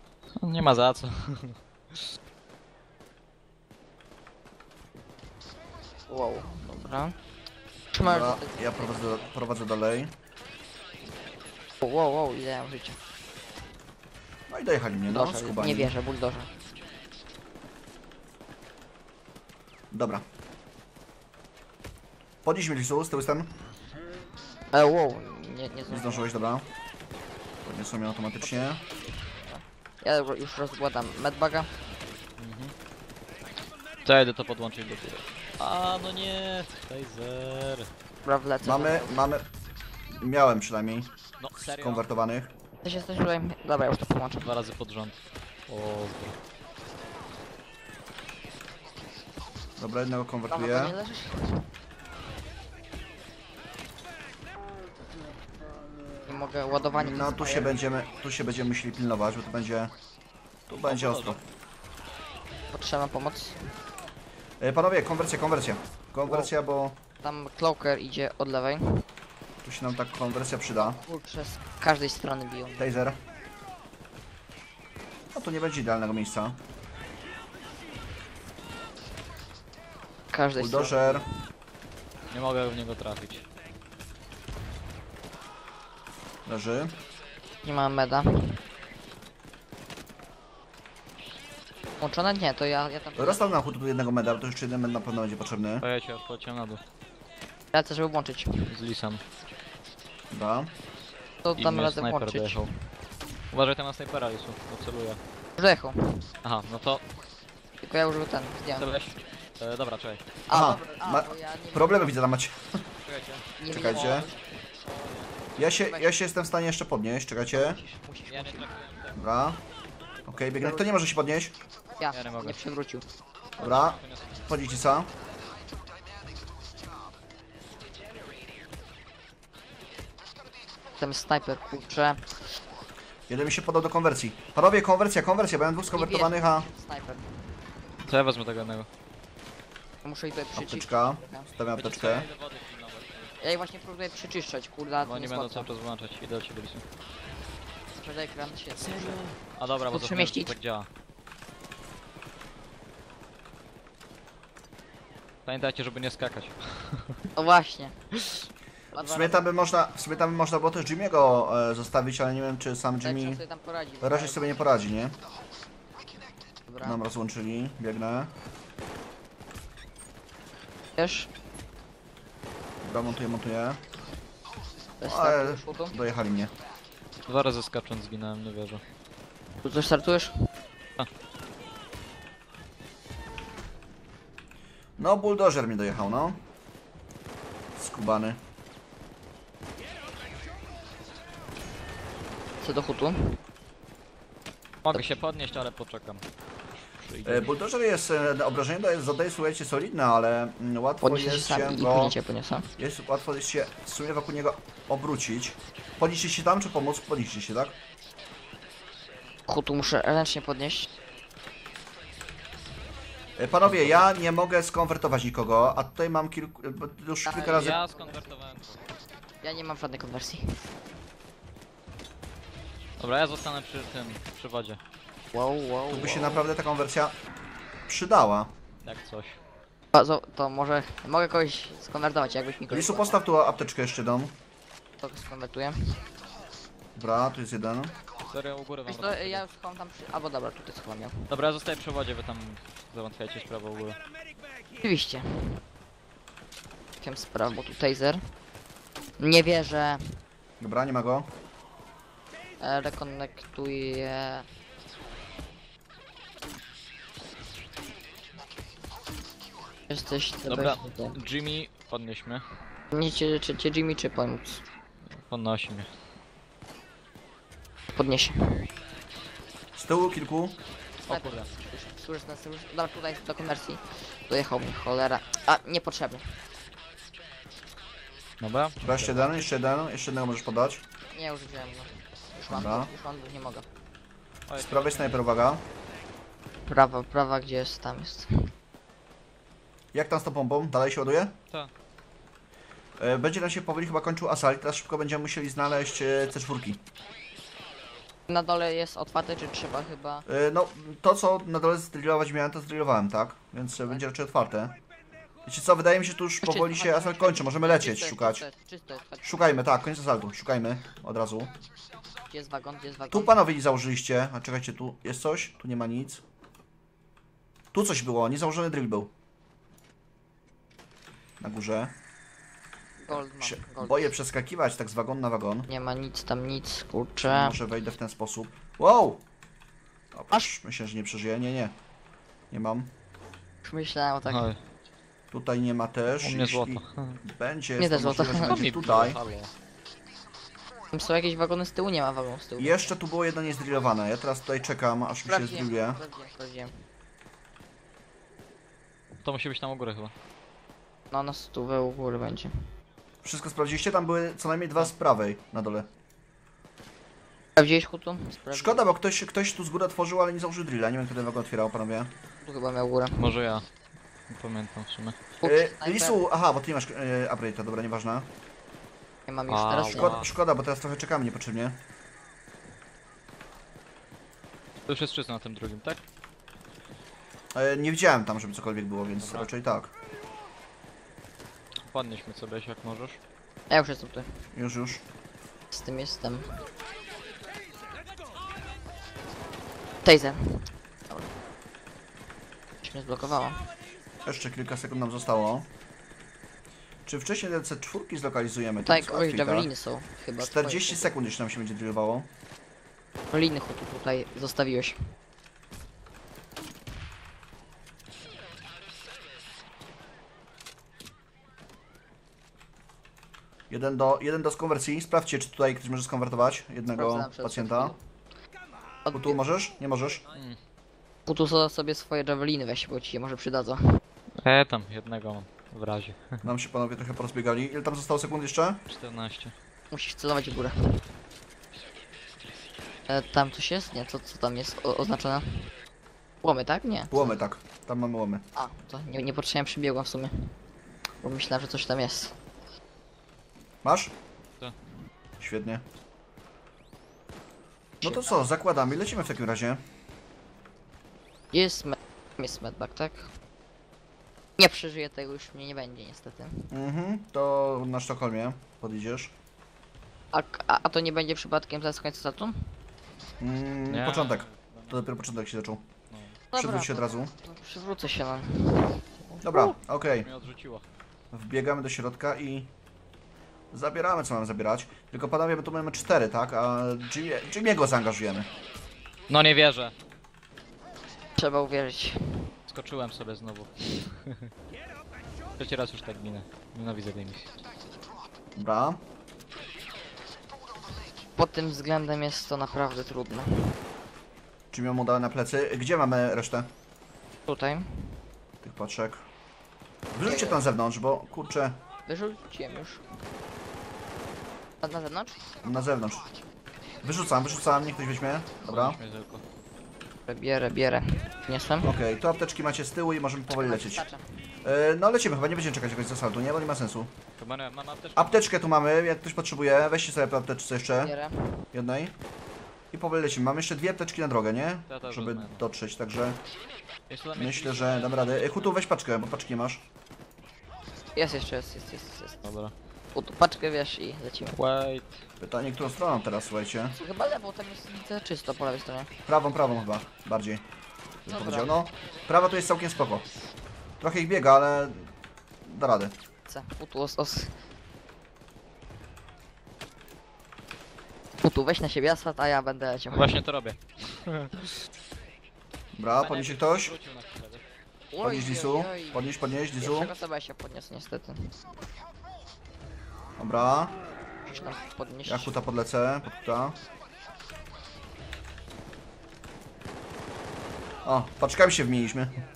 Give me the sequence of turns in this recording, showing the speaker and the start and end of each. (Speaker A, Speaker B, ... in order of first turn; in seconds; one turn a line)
Speaker A: 0.4-2.0
Speaker B: 6.1-7.2
Speaker B: 7.9-9.3
Speaker C: 8.0-10.1
Speaker B: 11.8-13.0
Speaker C: 14.5-15.9
Speaker B: 15.1-16.5
Speaker C: 19.9-20.2
Speaker C: 22.4-23.5
Speaker B: 24.7-26.3
Speaker C: 25.9-26.7
Speaker C: 27.6-28.8
Speaker B: 28.4-31.7
Speaker A: 32.4-32.7
Speaker A: 34.0-37.9
Speaker B: 38.2-39.2
Speaker C: 38.6-39.5
Speaker C: 40.2-41.1
Speaker A: 41.4-42.1
Speaker C: 41.8-42.5
Speaker B: 42.8-44.5
Speaker A: 44.4-46.4
Speaker C: 49.8-51.0
Speaker B: 50.5-51.7
Speaker B: 56.3-57.7
Speaker C: 56.9-59.9
Speaker C: 60.7-61.4
Speaker A: 60.9-61.4
Speaker B: 62.7-63.7
Speaker C: 64.6-67.0
Speaker B: 66.2-66.5
Speaker B: 67.2-69.0
Speaker C: 69.6-71.0
Speaker B: 70.7-72.9
Speaker C: 72.8-73.2
Speaker C: 75.3-76.6
Speaker B: 80.3-81.3
Speaker C: 80.6-81.2
Speaker A: 82.3-83.5
Speaker C: 86.5-86.9
Speaker B: 87.6-88.6
Speaker B: 92.0-93.5
Speaker C: 93.2-95.8
Speaker A: 95.8-96.8
Speaker B: 97.7-98.7
Speaker A: 98.7-99.2
Speaker C: 100.3-100.7
Speaker B: 101.4-102.7
Speaker A: 101.6-102.7
Speaker A: 103.5-105.2
Speaker B: 105.6-106.3
Speaker A: 106.4-107.0
Speaker B: 107.8-108.9
Speaker A: 108.8-110.2
Speaker B: 110.5-112.1
Speaker C: 110.5-112.8
Speaker A: 113.0-113.5
Speaker B: 113.6-114.4
Speaker C: 113.7-114.3
Speaker A: 114.8-115.4
Speaker C: 115.6-117.8
Speaker B: 115.6-116.1
Speaker B: 117.5-118.7
Speaker A: 118.3-119.2
Speaker C: 119.2-119.6
Speaker C: 120.3-121.5
Speaker B: 120.6-120.9
Speaker B: 122.0-123.1
Speaker A: 122.1-122.6
Speaker C: 123.6-125.1
Speaker A: 123.6-124.5
Speaker B: 131.0-132.4
Speaker C: 133.3-136.7
Speaker B: 135.9-137.6
Speaker A: 138.1-138.9
Speaker B: 140.0-141.5
Speaker C: 140.5-142.3
Speaker A: 141.8-143.3
Speaker B: 143.4-145.7
Speaker A: 145.0-146.8
Speaker B: 148.0-149.4
Speaker A: 149.6-150.9
Speaker B: 149.9-150.5
Speaker A: 155.5-157.2
Speaker B: 157.3-158.2
Speaker B: 158.9-159.5
Speaker C: 159.0-163.4
Speaker B: 163.0-164.7
Speaker C: 164.0-165.2
Speaker B: 166.7-167.0
Speaker C: 166.8-168.3
Speaker B: 171.0-171.3
Speaker C: 172.8-173.8
Speaker B: 175.0-176.0
Speaker C: 175.0-176.5
Speaker A: 177.3-178.8
Speaker B: 179.6-180.3
Speaker C: 185.0-186.4
Speaker C: 187.8-188.4
Speaker B: 192.6-193.4
Speaker A: 194.8-196.2
Speaker A: 197.0-197.5
Speaker C: 197.2-202.2
Speaker B: 201.0-202.7
Speaker C: 202.8-207.8
Speaker B: 209.5-210.9
Speaker C: 213.4-217.8
Speaker A: 213.6-214.0
Speaker B: 217.2-218.3
Speaker A: 217.5-218.9
Speaker B: 219.4-220.6
Speaker A: 223.0-224.8
Speaker B: 225.3-226.5
Speaker C: 225.9-227.2
Speaker C: 227.9-228.5
Speaker A: 228.8-229.4
Speaker B: 229.9-233.2
Speaker C: 232.7-234.3
Speaker B: 235.0-236.0
Speaker C: 237.0-238.0
Speaker A: 238.3-239.4
Speaker B: 238.9-241.3
Speaker A: 241.3-244.0
Speaker B: 244.8-245.6
Speaker B: 247.0-248.3
Speaker B: 249.2-250.2
Speaker C: 250.6-251.3
Speaker B: 252.6-254.5
Speaker B: 259.9-261.2
Speaker A: 260.5-262.5
Speaker B: 262.9-264.6
Speaker A: 265.1-265.9
Speaker B: 267.9-268.7
Speaker C: 269.8-270.6
Speaker A: 271.1-271.4
Speaker B: 271.1-276.4
Speaker A: 278.4-279.4
Speaker C: 278.8-280.8
Speaker B: 281.1-283.7
Speaker C: 282.5-282.9
Speaker A: 284.5-285.3
Speaker C: 284.6-285.6
Speaker B: 286.7-288.5
Speaker C: 289.9-291.4
Speaker C: 293.0-296.8
Speaker B: 298.3-300.3
Speaker C: 300.3-304.8
Speaker C: 305.4-308.4
Speaker B: 306.4-309.6
Speaker C: 309.2-311.5
Speaker B: 312.3-313.4
Speaker C: 313.1-316.2
Speaker C: 317.7-319.1
Speaker C: 321.4-321.9
Speaker B: 323.0-324.1
Speaker C: 323.4-325.7
Speaker B: 325.7-327.6
Speaker C: 327.3-329.2
Speaker C: 330.1-331.8
Speaker C: 332.5-332.9
Speaker B: 333.6-334.5
Speaker A: 334.3-334.6
Speaker C: 335.3-339.2
Speaker A: 336.2-337.2
Speaker B: 337.8-338.6
Speaker A: 338.3-339.5
Speaker B: 340.9-342.9
Speaker C: 342.6-346.0
Speaker B: 345.2-346.8
Speaker A: 349.2-350.1
Speaker B: 351.1-352.5
Speaker C: 353.2-355.9
Speaker B: 357.6-358.8
Speaker C: 358.5-362.1
Speaker B: 362.4-363.3
Speaker A: 363.2-363.7
Speaker A: 364.3-365.2
Speaker B: 365.4-366.2
Speaker C: 365.4-368.3
Speaker B: 369.3-370.2
Speaker A: 369.5-370.3
Speaker C: 369.9-371.8
Speaker A: 374.9-376.0
Speaker C: 377.6-379.9
Speaker A: 379.2-379.5
Speaker A: 381.9-383.2
Speaker B: 383.7-384.4
Speaker C: 384.5-385.0
Speaker B: 385.7-386.6
Speaker B: 390.0-391.3
Speaker B: 392.8-393.7
Speaker C: 394.2-395.7
Speaker C: 397.1-399.7
Speaker B: 398.8-401.1
Speaker C: 400.4-402.3
Speaker B: 403.3-405.0
Speaker C: 413.7-417.9
Speaker B: 416.9-418.0
Speaker B: 419.1-419.4
Speaker C: 419.1-420.2
Speaker A: 420.3-420.6
Speaker B: 421.3-424.0
Speaker A: 424.4-426.4
Speaker C: 426.4-428.8
Speaker A: 428.9-429.5
Speaker B: 429.9-431.1
Speaker B: 433.1-435.7
Speaker B: 436.4-437.4
Speaker C: 437.1-438.4
Speaker B: 438.6-440.6
Speaker B: 441.2-442.4
Speaker C: 443.8-444.1
Speaker C: 445.4-445.8
Speaker C: 448.0-449.8
Speaker B: 448.0-448.4
Speaker B: 451.5-453.3
Speaker B: 454.6-456.7
Speaker C: 456.7-459.3
Speaker B: 460.3-462.8
Speaker C: 463.4-465.8
Speaker A: 463.9-465.0
Speaker A: 466.1-466.4
Speaker B: 466.5-469.0
Speaker C: 466.6-467.3
Speaker A: 469.3-470.9
Speaker C: 469.4-470.3
Speaker C: 471.3-472.7
Speaker C: 473.7-478.5
Speaker A: 479.3-479.9
Speaker B: 481.4-482.5
Speaker A: 482.7-484.5
Speaker A: 485.6-487.5
Speaker C: 488.6-489.0
Speaker B: 491.4-493.8
Speaker C: 494.7-496.7
Speaker B: 497.5-498.2
Speaker C: 498.6-499.2
Speaker C: 500.1-501.8
Speaker B: 500.2-500.6
Speaker B: 502.1-503.0
Speaker B: 504.8-505.4
Speaker C: 505.6-506.3
Speaker C: 507.0-509.0
Speaker A: 508.6-509.4
Speaker B: 510.3-511.9
Speaker C: 511.8-514.1
Speaker B: 513.5-514.2
Speaker C: 514.6-517.1
Speaker A: 517.4-518.5
Speaker C: 518.2-521.1
Speaker B: 521.0-521.7
Speaker C: 521.7-522.1
Speaker C: 522.9-526.4
Speaker A: 524.9-525.6
Speaker A: 527.1-528.8
Speaker C: 527.4-529.9
Speaker B: 531.1-532.5
Speaker A: 532.5-532.7
Speaker B: 533.1-534.6
Speaker A: 534.5-535.2
Speaker C: 535.4-537.0
Speaker B: 537.0-539.1
Speaker C: 539.3-540.6
Speaker C: 541.2-543.3
Speaker B: 541.3-541.8
Speaker C: 544.0-545.1
Speaker C: 545.6-546.1
Speaker B: 546.5-547.5
Speaker B: 551.4-553.4
Speaker A: 553.1-554.7
Speaker C: 555.9-556.9
Speaker A: 556.2-557.6
Speaker B: 558.1-561.5
Speaker C: 558.2-560.1
Speaker C: 563.4-564.0
Speaker B: 564.5-565.6
Speaker C: 565.3-566.8
Speaker C: 571.0-572.4